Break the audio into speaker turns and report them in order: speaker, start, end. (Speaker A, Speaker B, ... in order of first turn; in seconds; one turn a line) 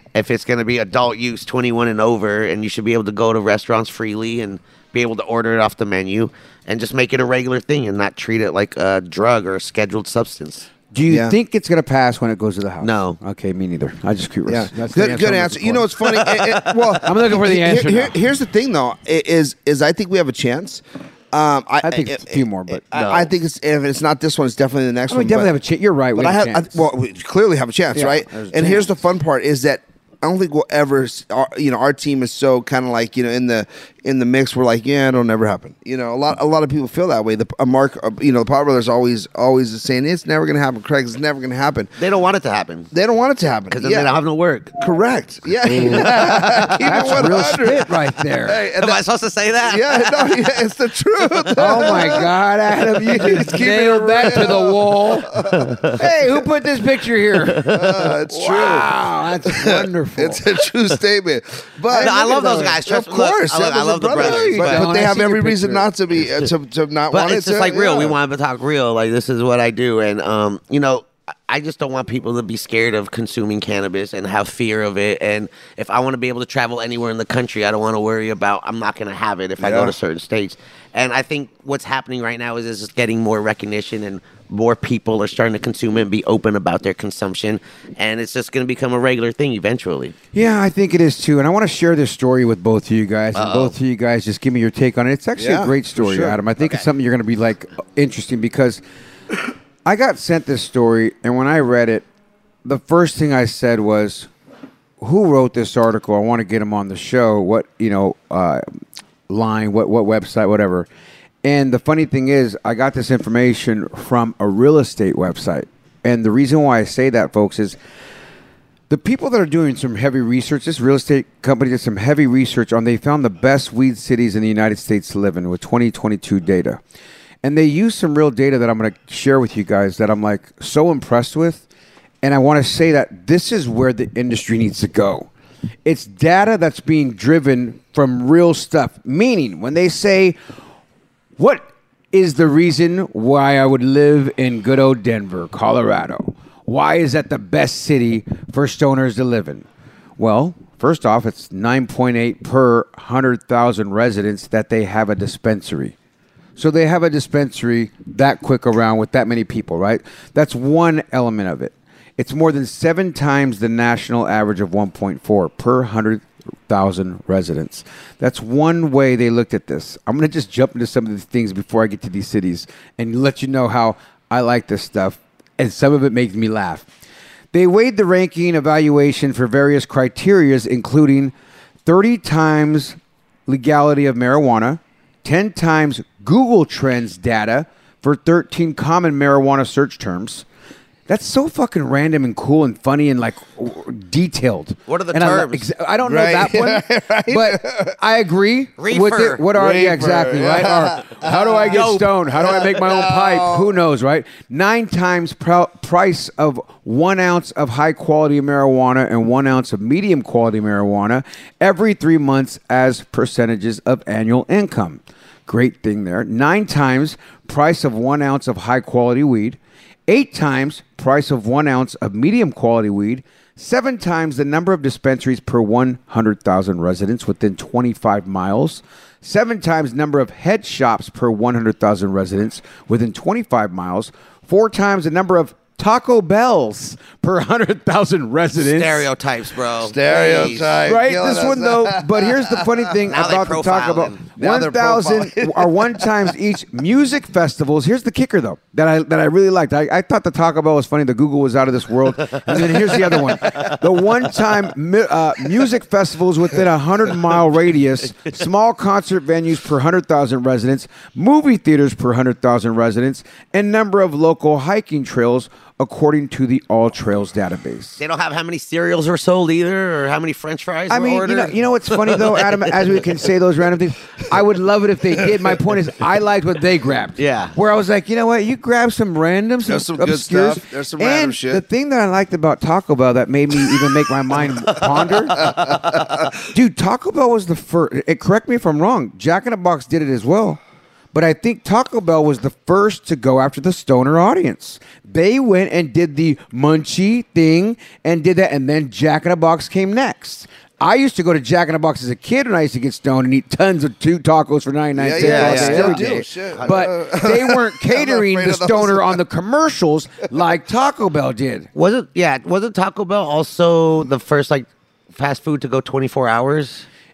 Speaker A: 0.1-10.7
Speaker B: 10.9-15.9
Speaker C: 11.1-11.3
Speaker A: 12.8-13.2
Speaker C: 14.5-25.5
Speaker A: 16.1-17.1
Speaker B: 17.0-18.2
Speaker B: 21.8-22.9
Speaker A: 22.9-23.3
Speaker B: 25.1-26.9
Speaker C: 26.2-41.9
Speaker B: 27.9-29.0
Speaker A: 42.0-42.9
Speaker C: 42.9-44.1
Speaker A: 43.7-44.8
Speaker C: 44.8-49.0
Speaker A: 45.6-47.7
Speaker B: 45.7-46.2
Speaker B: 46.8-48.6
Speaker A: 48.8-50.6
Speaker C: 49.6-52.3
Speaker A: 51.2-52.2
Speaker B: 51.6-55.3
Speaker C: 52.9-56.0
Speaker A: 55.6-56.0
Speaker B: 55.9-60.4
Speaker A: 57.5-58.1
Speaker C: 57.7-58.9
Speaker C: 59.5-68.2
Speaker B: 61.9-62.5
Speaker A: 61.9-64.9
Speaker B: 64.1-65.9
Speaker A: 67.1-90.2
Speaker C: 79.6-79.9
Speaker B: 90.3-98.8
Speaker A: 93.3-93.7
Speaker C: 95.4-96.4
Speaker B: 99.8-102.0
Speaker B: 102.7-104.3
Speaker B: 105.0-108.8
Speaker B: 109.3-110.9
Speaker B: 111.4-117.8
Speaker B: 118.9-126.8
Speaker B: 127.4-131.7
Speaker B: 132.2-135.3
Speaker B: 135.8-140.4
Speaker B: 141.4-149.7
Speaker B: 150.2-155.9
Speaker B: 156.6-176.9
Speaker B: 177.5-181.3
Speaker B: 181.8-190.4
Speaker B: 191.1-239.1
Speaker A: 194.9-195.7
Speaker C: 196.0-197.9
Speaker A: 198.8-199.5
Speaker C: 199.5-203.7
Speaker A: 201.7-202.1
Speaker A: 238.6-240.9
Speaker C: 239.8-242.7
Speaker B: 240.2-268.0
Speaker A: 243.1-244.2
Speaker C: 244.4-246.1
Speaker A: 252.4-253.0
Speaker A: 268.0-273.0
Speaker B: 270.9-285.6
Speaker A: 277.2-277.6
Speaker C: 279.7-281.6
Speaker A: 284.7-286.0
Speaker C: 285.5-286.1
Speaker B: 286.5-290.6
Speaker B: 291.1-311.7
Speaker C: 305.0-309.2
Speaker A: 305.2-306.8
Speaker A: 311.8-316.9